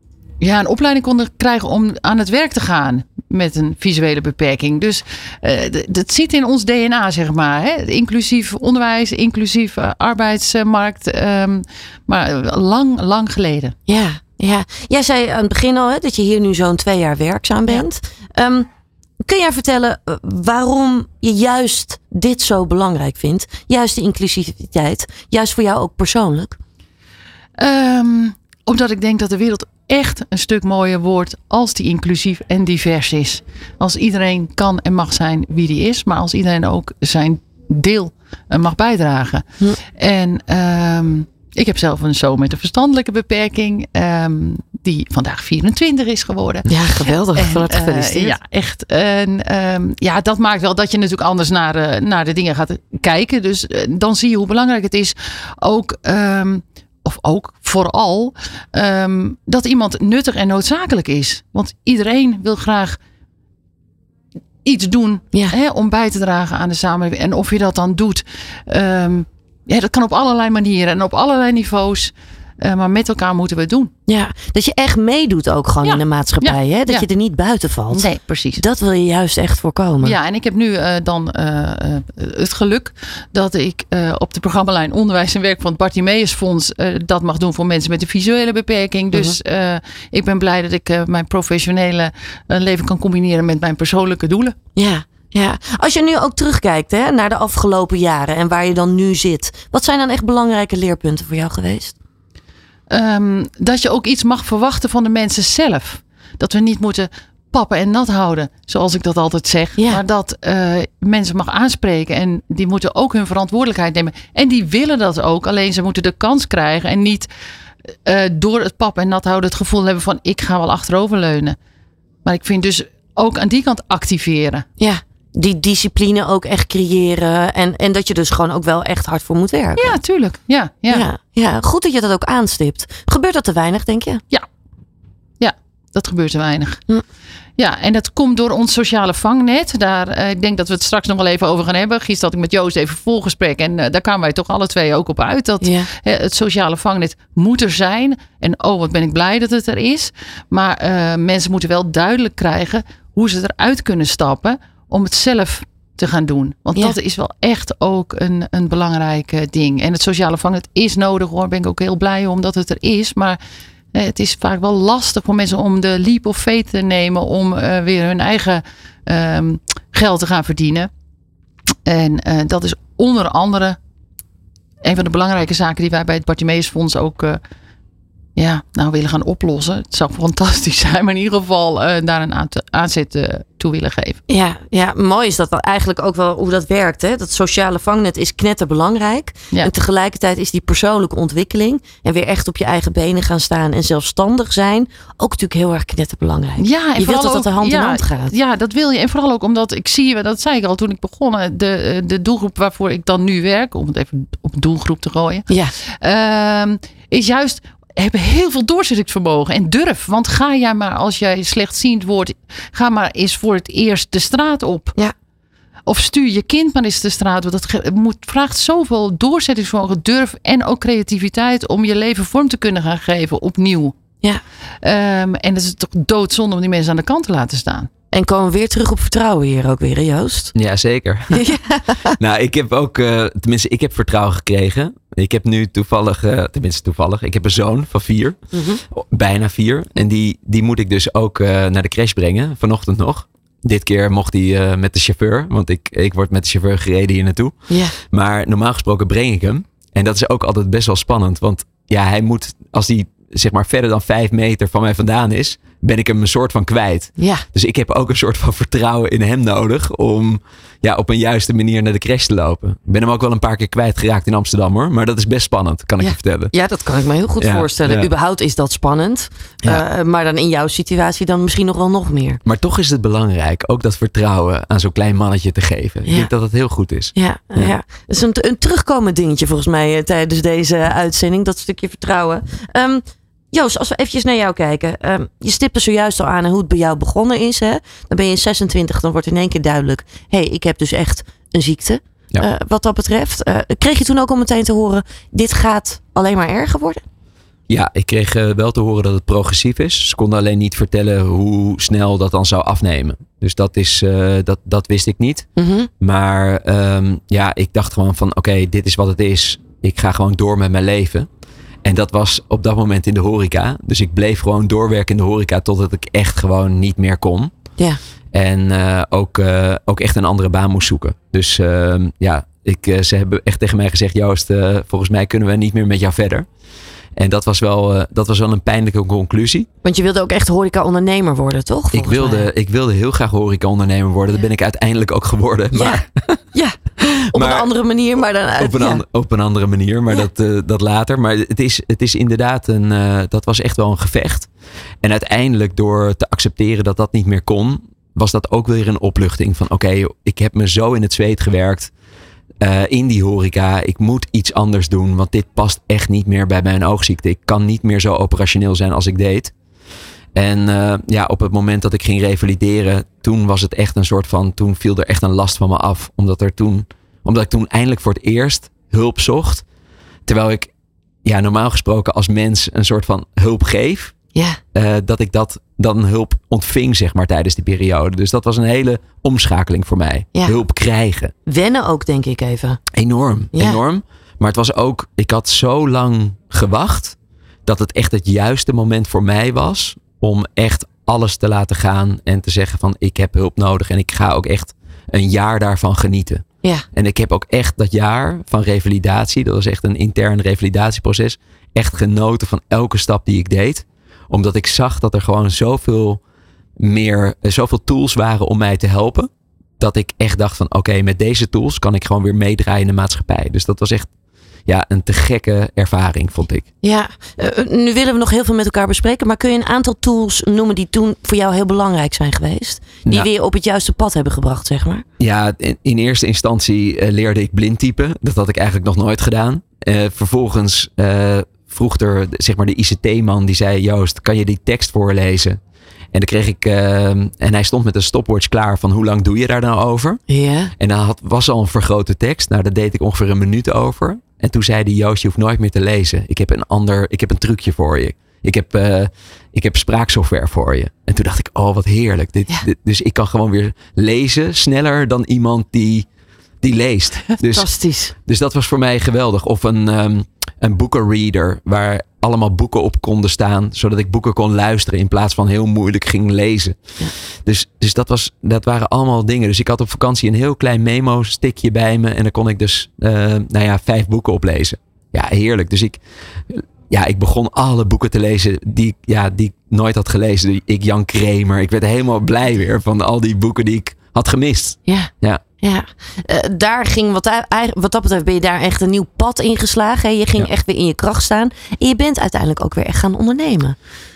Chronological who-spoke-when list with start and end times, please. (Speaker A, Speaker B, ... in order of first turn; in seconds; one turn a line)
Speaker A: 0.4-13.8
Speaker B: 13.9-18.7
Speaker B: 19.2-26.6
Speaker A: 27.6-63.0
Speaker B: 46.7-48.4
Speaker A: 64.7-73.9
Speaker B: 74.1-80.2
Speaker A: 75.8-77.1
Speaker A: 77.9-78.6
Speaker A: 80.0-94.6
Speaker B: 94.8-101.9
Speaker A: 102.9-117.3
Speaker A: 118.1-121.6
Speaker A: 122.2-124.7
Speaker B: 124.8-130.0
Speaker A: 129.8-131.1
Speaker B: 130.9-134.2
Speaker A: 135.4-136.8
Speaker A: 137.6-163.4
Speaker B: 145.6-145.9
Speaker A: 163.9-170.9
Speaker A: 171.9-173.8
Speaker A: 174.8-177.4
Speaker A: 178.4-184.2
Speaker B: 184.3-198.3
Speaker A: 196.6-215.0
Speaker B: 205.5-205.8
Speaker A: 215.9-224.0
Speaker A: 224.8-227.9
Speaker B: 228.1-230.5
Speaker C: 230.6-231.5
Speaker B: 231.3-232.2
Speaker C: 232.1-238.4
Speaker B: 238.5-238.8
Speaker C: 238.9-266.5
Speaker B: 247.7-247.9
Speaker B: 257.2-257.4
Speaker B: 266.0-272.4
Speaker C: 267.4-268.1
Speaker C: 272.4-277.8
Speaker B: 277.1-297.0
Speaker C: 297.7-305.5
Speaker B: 305.6-305.9
Speaker C: 306.0-311.3
Speaker C: 311.8-317.5
Speaker C: 318.3-326.5
Speaker C: 327.1-329.7
Speaker B: 329.8-332.5
Speaker C: 331.9-336.1
Speaker B: 335.8-339.0
Speaker C: 337.3-337.7
Speaker C: 338.6-344.5
Speaker C: 345.0-351.9
Speaker C: 352.6-359.5
Speaker C: 360.4-369.6
Speaker C: 370.3-370.7
Speaker C: 371.2-374.1
Speaker B: 374.4-374.6
Speaker C: 374.7-381.3
Speaker B: 381.5-382.8
Speaker C: 382.9-406.2
Speaker B: 383.6-383.8
Speaker C: 406.8-414.1
Speaker C: 414.7-416.7
Speaker B: 416.8-425.1
Speaker C: 425.2-435.6
Speaker C: 436.1-440.2
Speaker B: 440.3-440.7
Speaker C: 440.8-456.1
Speaker C: 456.6-457.7
Speaker B: 457.5-458.1
Speaker C: 458.3-466.8
Speaker C: 467.4-485.4
Speaker B: 484.9-493.8